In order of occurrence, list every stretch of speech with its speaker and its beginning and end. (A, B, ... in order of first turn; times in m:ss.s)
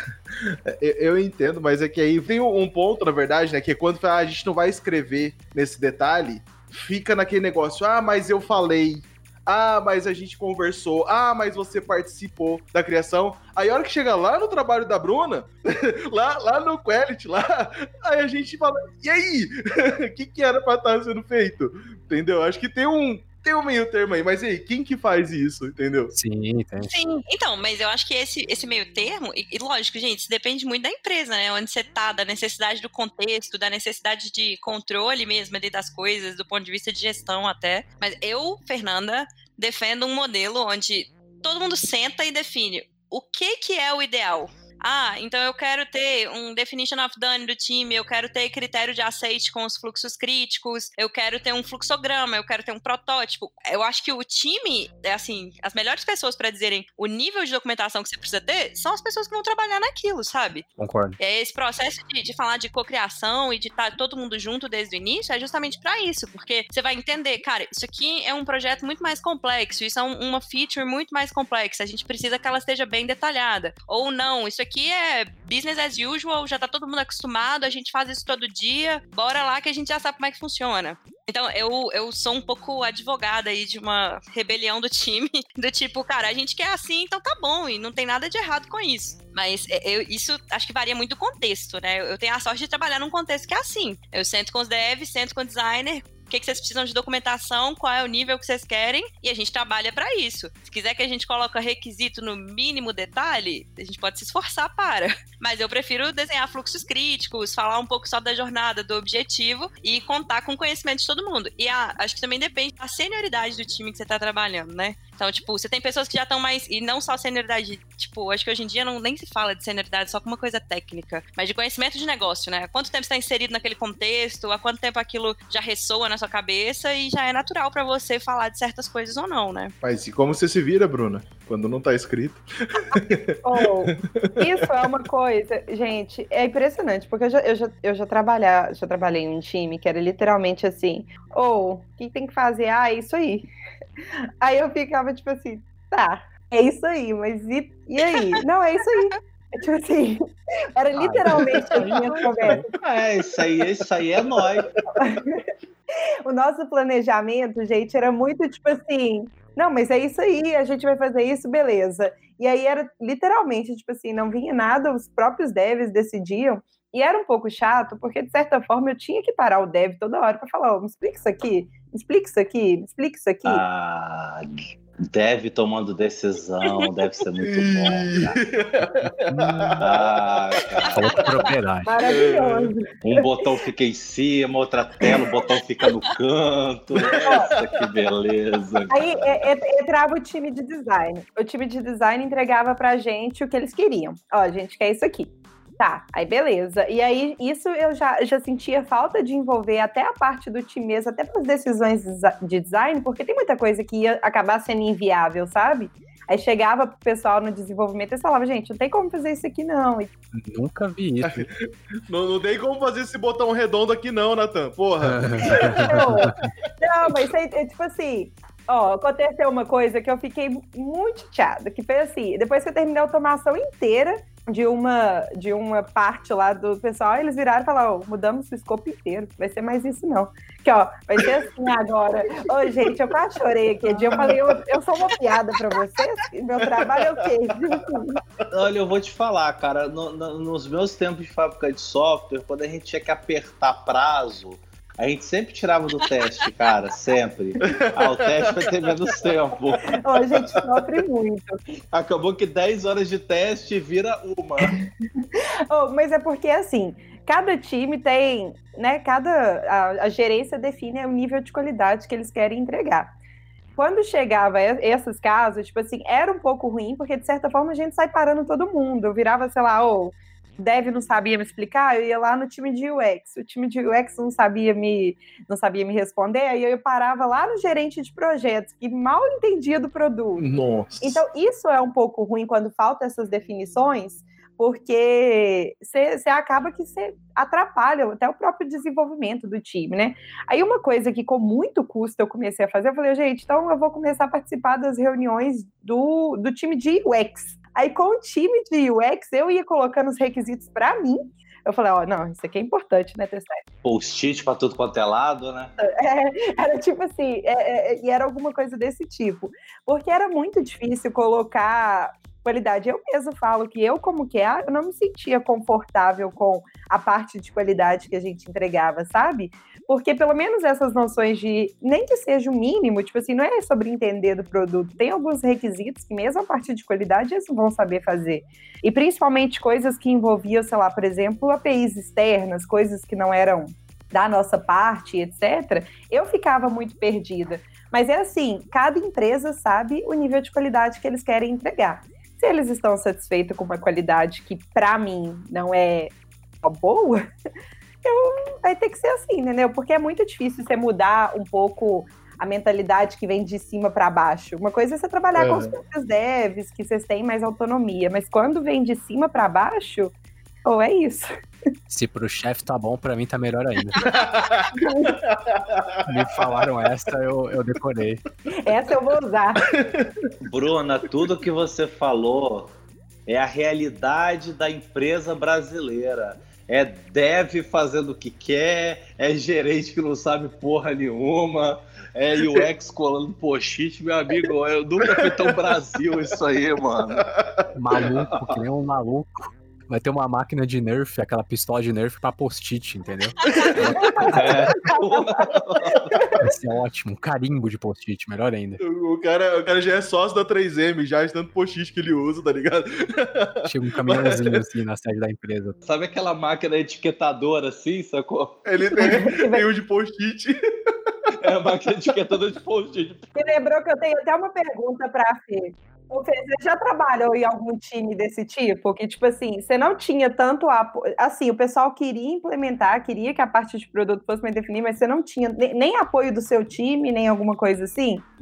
0:00.5-0:26.1 A
0:26.1-0:26.9 B
0:26.8-1:00.6 C
1:00.8-1:01.2 B
1:01.2-2:09.7 C
2:09.8-2:14.7 A
2:13.4-2:23.5 D
2:24.4-2:32.7 D
2:30.9-2:32.6 B
2:31.4-2:32.5 A
2:32.8-2:34.7 E
2:33.4-2:33.6 A
2:34.2-2:35.2 A
2:35.0-2:35.4 D
2:36.2-2:53.6 D
2:53.4-2:54.6 E
2:55.1-2:58.4 E
2:57.4-3:00.9 A
2:59.0-2:59.8 B
2:59.8-3:01.0 E
3:00.9-3:01.9 B
3:01.8-3:03.6 D
3:02.0-3:02.7 A
3:03.0-3:09.4 E
3:07.0-3:07.8 A
3:07.1-3:07.5 D
3:08.9-3:30.1 D
3:30.3-3:31.5 B
3:31.2-3:36.7 A
3:35.0-3:36.3 B
3:35.4-3:58.2 D
3:54.0-3:54.6 A
3:56.8-3:57.2 A
3:58.5-4:09.9 E
4:06.0-4:06.5 C
4:07.8-4:08.6 A
4:09.9-4:11.6 D
4:10.2-4:10.4 A
4:11.9-4:14.8 E
4:15.2-4:23.1 D
4:23.8-4:40.5 D
4:40.4-4:41.2 A
4:41.0-5:03.6 D
5:03.8-5:05.7 E
5:05.8-5:47.3 D
5:48.0-6:00.1 D
5:55.3-5:55.7 A
6:00.6-6:01.3 D
6:01.9-6:04.0 B
6:03.9-6:04.2 C
6:04.0-6:06.0 A
6:04.7-6:05.2 D
6:06.1-6:08.2 B
6:08.6-6:09.6 D
6:09.7-6:10.1 A
6:10.4-6:12.7 E
6:13.3-6:27.2 E
6:25.0-6:25.8 A
6:27.2-6:27.6 A
6:27.7-6:34.6 B
6:28.2-6:28.5 E
6:33.4-6:33.7 C
6:33.4-6:33.8 A
6:33.9-6:35.5 D
6:34.3-6:36.1 E
6:35.9-6:36.4 A
6:36.4-6:38.8 B
6:38.8-6:44.6 A
6:43.6-6:45.8 B
6:45.8-6:48.6 E
6:48.6-6:50.5 A
6:49.0-6:49.6 D
6:51.4-6:53.3 E
6:53.3-7:08.3 D